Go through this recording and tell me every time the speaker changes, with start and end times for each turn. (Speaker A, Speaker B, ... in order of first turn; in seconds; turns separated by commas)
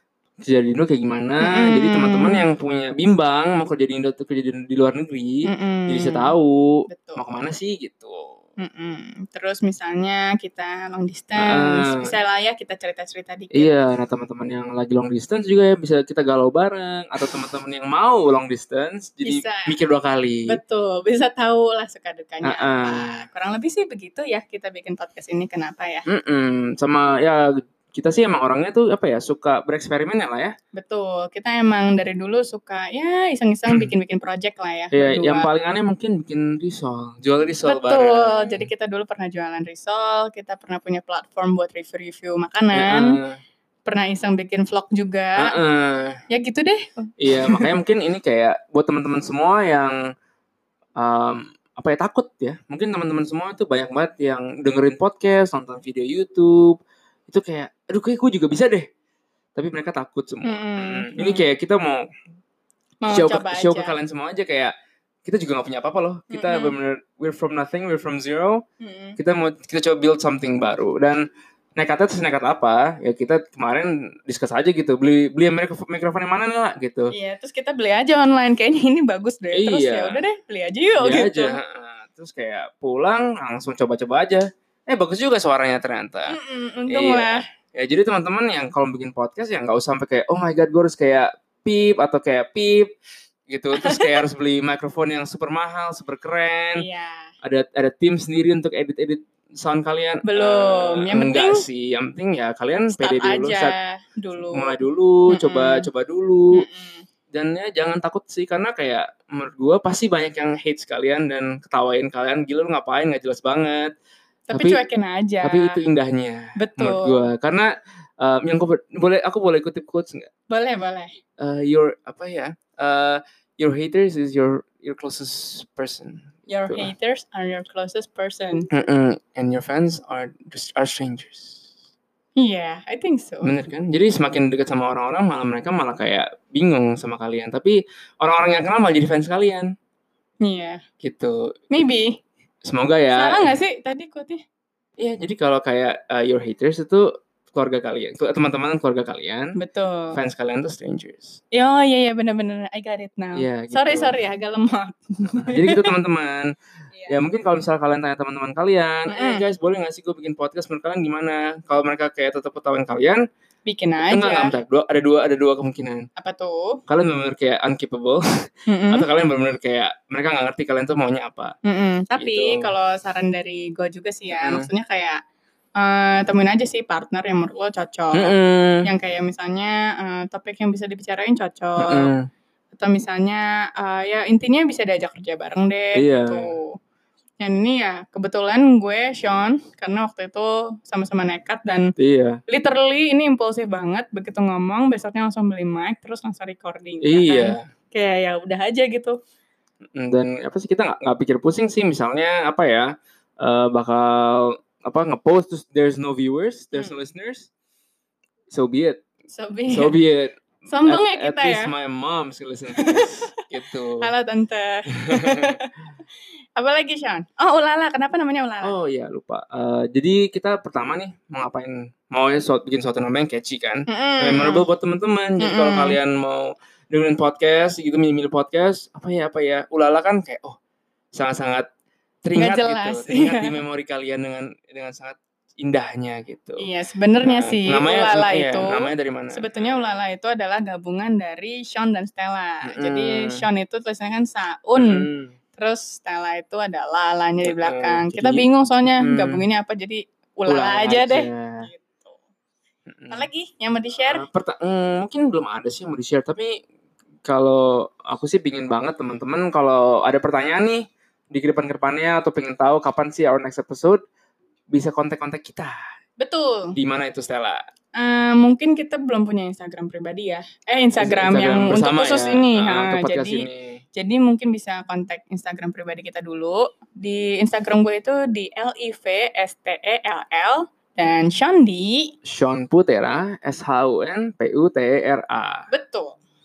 Speaker A: 0.4-8.4, Speaker B: 1.4-2.4, Speaker B: 5.4-7.2, Speaker B: 8.6-13.7, Speaker A: 11.4-12.1, Speaker A: 13.5-20.6, Speaker B: 19.2-19.7, Speaker B: 20.5-26.0, Speaker A: 22.4-23.2, Speaker A: 26.1-30.5, Speaker B: 30.7-35.5, Speaker A: 34.9-38.6, Speaker B: 37.6-43.2, Speaker A: 42.7-43.4, Speaker B: 43.8-45.5, Speaker A: 45.4-46.2, Speaker B: 46.3-47.7, Speaker A: 47.2-50.0, Speaker A: 51.0-58.9, Speaker A: 59.5-62.0, Speaker B: 60.4-61.5, Speaker B: 63.0-63.9, Speaker A: 63.1-64.7, Speaker A: 65.2-68.6, Speaker B: 66.3-66.7, Speaker B: 68.8-69.2, Speaker A: 69.2-71.2, Speaker A: 71.8-77.1, Speaker B: 77.1-81.6, Speaker A: 79.5-80.2, Speaker A: 81.0-86.3, Speaker B: 86.3-87.4, Speaker A: 86.9-92.9, Speaker A: 93.5-96.8, Speaker B: 93.7-94.1, Speaker B: 96.8-97.3, Speaker A: 97.4-103.7, Speaker B: 100.2-101.7, Speaker B: 102.9-105.9, Speaker A: 104.5-106.6, Speaker B: 106.5-107.0, Speaker A: 107.3-113.9, Speaker B: 114.5-115.8, Speaker A: 114.5-114.8, Speaker A: 115.4-117.7, Speaker B: 116.6-117.3, Speaker A: 118.2-120.3, Speaker B: 120.5-121.2, Speaker A: 121.4-126.9, Speaker B: 126.5-128.7, Speaker A: 128.7-131.6, Speaker B: 132.4-133.5, Speaker A: 133.4-139.7, Speaker B: 140.4-140.8, Speaker A: 141.0-141.8, Speaker B: 141.7-142.2, Speaker A: 142.6-143.6, Speaker B: 143.1-144.4, Speaker A: 145.0-149.5, Speaker B: 149.6-150.2, Speaker A: 150.1-151.4, Speaker B: 151.5-155.9, Speaker A: 153.4-154.1, Speaker A: 155.3-156.5, Speaker A: 157.1-163.2, Speaker B: 159.1-159.4, Speaker B: 163.6-164.5, Speaker A: 164.1-166.0, Speaker B: 166.2-166.8, Speaker A: 166.9-171.5, Speaker B: 168.7-169.0, Speaker B: 171.6-175.2, Speaker A: 172.2-172.7, Speaker A: 174.3-174.7, Speaker B: 175.8-178.3, Speaker A: 178.1-178.8, Speaker B: 178.8-182.1, Speaker A: 181.8-182.3, Speaker B: 182.7-186.7, Speaker A: 185.9-186.5, Speaker B: 187.4-191.9, Speaker A: 192.0-192.4, Speaker B: 192.5-199.2, Speaker A: 197.0-197.7, Speaker A: 199.9-207.5, Speaker A: 208.5-209.0, Speaker B: 209.3-209.9, Speaker A: 209.7-214.1, Speaker B: 210.7-211.7, Speaker B: 212.8-213.3, Speaker B: 214.0-215.7, Speaker A: 215.1-215.4, Speaker B: 216.6-218.7, Speaker A: 218.6-230.6, Speaker B: 223.9-224.7, Speaker B: 225.4-226.0, Speaker A: 231.1-231.7, Speaker A: 232.2-236.6, Speaker B: 232.3-233.6, Speaker B: 236.6-252.2, Speaker A: 237.2-239.9, Speaker A: 242.6-243.4, Speaker A: 244.8-245.3, Speaker A: 247.4-249.4, Speaker A: 250.5-251.7, Speaker A: 252.9-253.3, Speaker B: 253.1-254.2, Speaker A: 254.0-256.6, Speaker A: 257.2-264.0, Speaker A: 264.7-265.8, Speaker B: 266.2-266.8, Speaker A: 266.8-267.6, Speaker B: 267.9-282.1, Speaker A: 271.0-273.8, Speaker A: 282.2-285.7, Speaker B: 285.7-286.2